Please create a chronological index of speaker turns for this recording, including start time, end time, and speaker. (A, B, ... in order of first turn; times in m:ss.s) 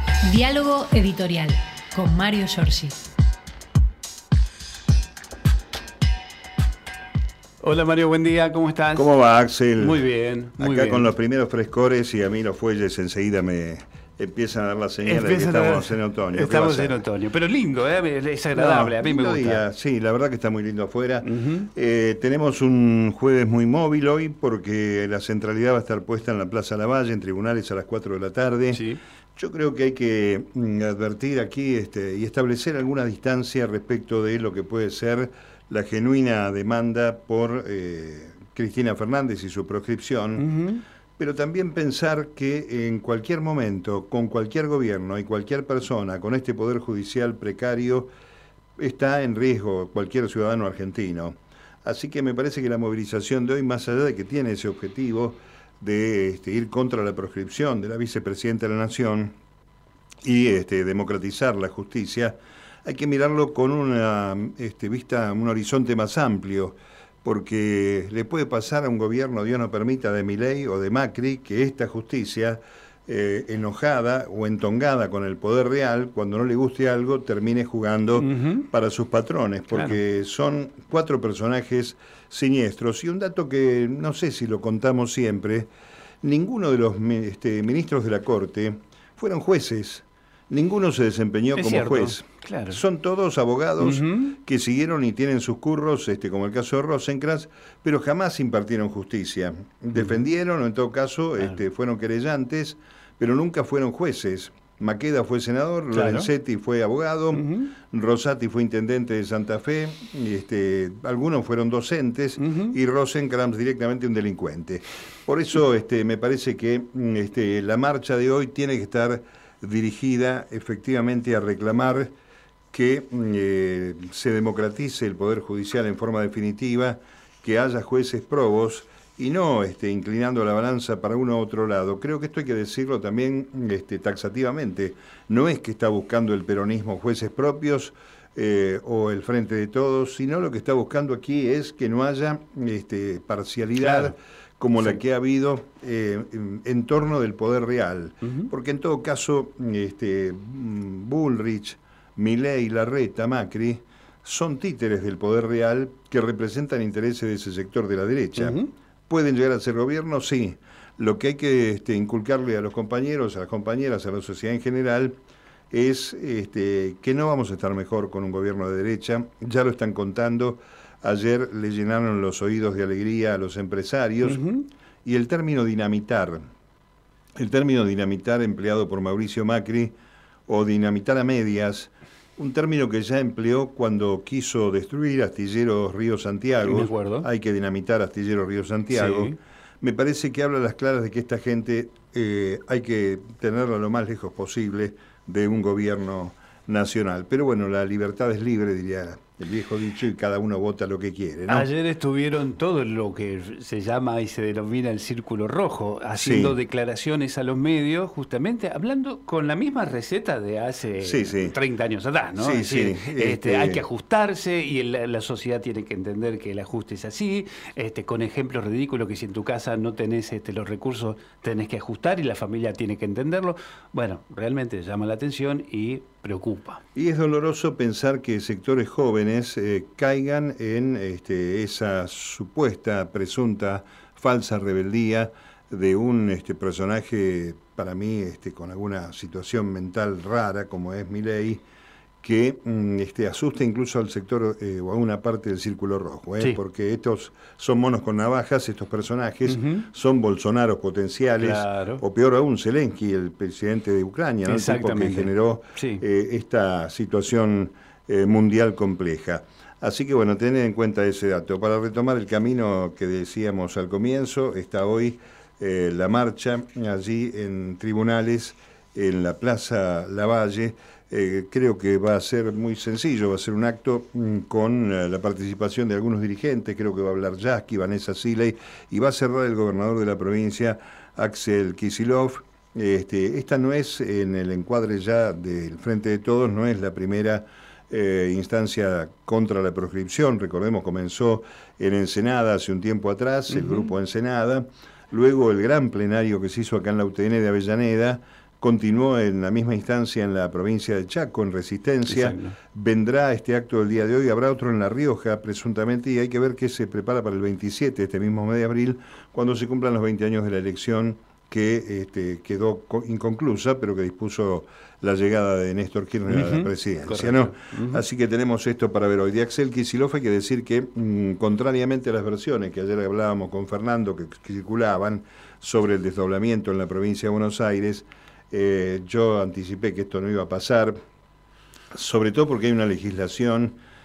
0:00.2-0:03.0 A
0:07.6-0:09.1 B
0:08.9-0:10.0 C
0:09.8-0:11.1 B
0:10.6-0:17.0 C
0:15.0-0:19.6 B
0:18.5-0:28.8 C
0:21.2-0:21.7 B
0:28.7-0:29.0 B
0:29.3-0:40.5 C
0:40.4-0:40.8 B
0:41.2-0:48.1 C
0:48.8-0:59.3 C
1:00.2-1:25.7 C
1:18.2-1:18.6 B
1:26.2-2:02.1 C
1:31.5-1:32.8 B
1:33.8-1:34.3 B
1:45.9-1:46.3 B
1:47.3-1:47.7 B
1:52.4-1:52.7 B
2:02.7-2:45.2 C
2:23.8-2:24.1 B
2:38.4-2:38.7 B
2:45.7-2:54.4 C
2:54.2-2:54.7 B
2:55.0-2:56.4 C
2:57.4-2:59.9 C
3:00.5-3:21.7 C
3:06.6-3:07.3 B
3:08.9-3:09.4 B
3:21.5-3:46.8 B
3:26.2-3:26.6 C
3:31.0-3:31.6 C
3:32.4-3:33.8 C
3:46.9-4:01.6 C
4:02.2-5:31.0 C
4:09.5-4:09.8 B
4:11.4-4:12.0 B
4:14.4-4:16.0 B
4:53.5-4:53.9 B
5:02.1-5:02.6 B
5:16.3-5:18.0 B
5:31.9-5:33.8 C